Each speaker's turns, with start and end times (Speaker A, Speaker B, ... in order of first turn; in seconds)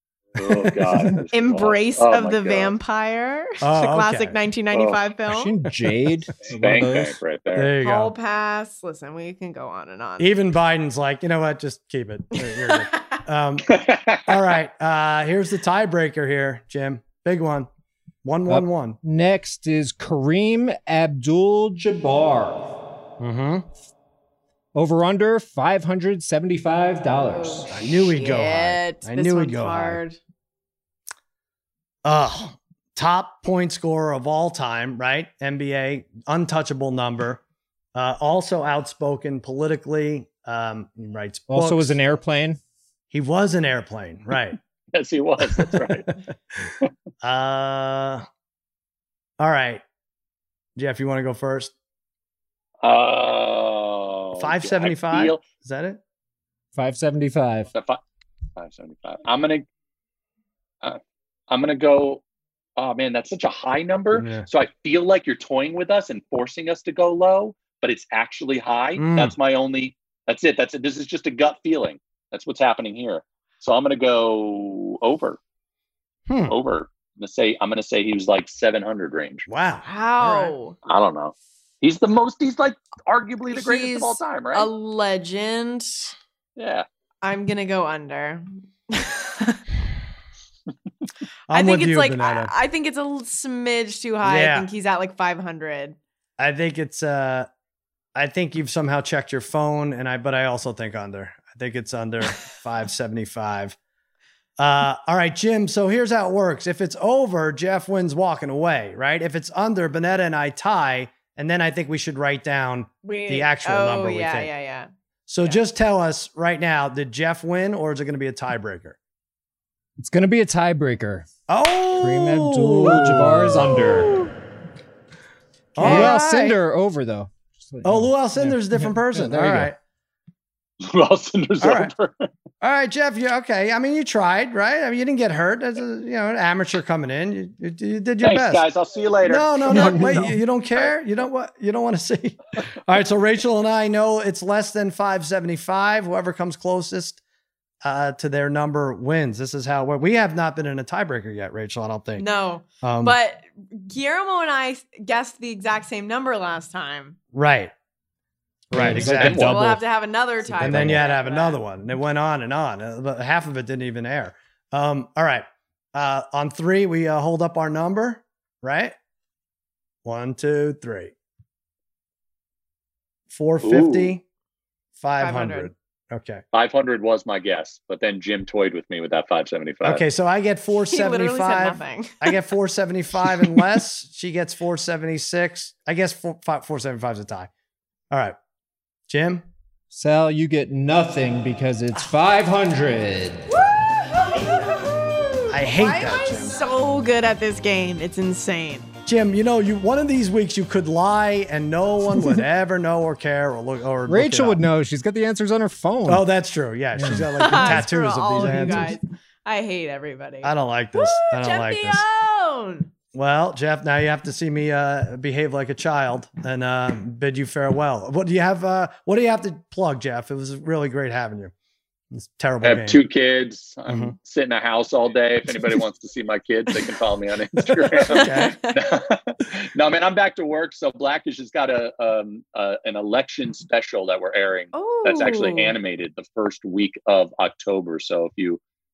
Speaker A: 0.4-2.7, 4.7-5.0, 6.4-7.7, 13.7-14.4, 44.9-46.1, 52.8-55.4, 57.7-58.0, 58.6-59.6, 60.8-62.2, 62.8-75.4, 76.5-79.5, 80.8-84.7, 86.5-86.9, 130.8-132.3, 138.2-140.9, 158.8-159.7, 173.6-174.2, 176.5-180.0, 222.6-238.6
Speaker B: 0.4-1.2, 3.6-4.4, 7.5-8.1, 10.2-17.7, 18.2-19.0, 23.2-23.7, 27.7-30.0, 32.0-37.4, 37.9-42.0, 43.1-44.6, 45.4-46.1, 47.2-48.2, 49.4-49.8, 50.8-51.7, 54.4-56.0, 64.1-64.5, 69.0-69.3, 76.3-76.5, 79.5-80.5, 91.5-92.5, 94.2-94.7, 96.4-97.5, 98.2-103.8, 104.6-114.5, 115.3-119.0, 121.5-124.2, 125.7-126.6, 127.8-129.8, 131.6-131.9, 132.6-138.6, 139.2-147.2, 147.8-152.2, 152.8-153.2, 157.3-157.7, 158.7-159.6, 160.6-168.9, 170.1-171.1, 173.3-174.2, 175.0-176.4, 179.8-187.5, 188.1-188.4, 189.1-189.4, 195.5-196.6, 199.1-204.6, 206.1-208.9, 210.4-212.1, 213.1-221.5, 222.1-223.0, 223.9-224.1, 227.6-228.6
Speaker C: 1.3-5.5, 7.8-10.3, 12.5-13.2, 27.2-30.2, 79.8-80.8, 83.5-86.1, 87.2-89.6, 91.5-96.0, 113.0-114.9, 152.2-157.2, 159.2-161.6, 175.2-175.7, 180.8-182.4, 193.5-198.9, 207.3-212.9, 228.0-229.0, 234.7-235.8
Speaker D: 5.3-7.2, 18.5-22.6, 24.7-27.7, 41.5-42.6, 56.7-57.7, 120.0-121.3, 122.0-124.2, 125.8-129.7, 139.7-140.3, 158.7-159.8, 160.5-161.0, 189.9-193.5, 204.1-206.2, 206.9-207.9, 208.4-208.9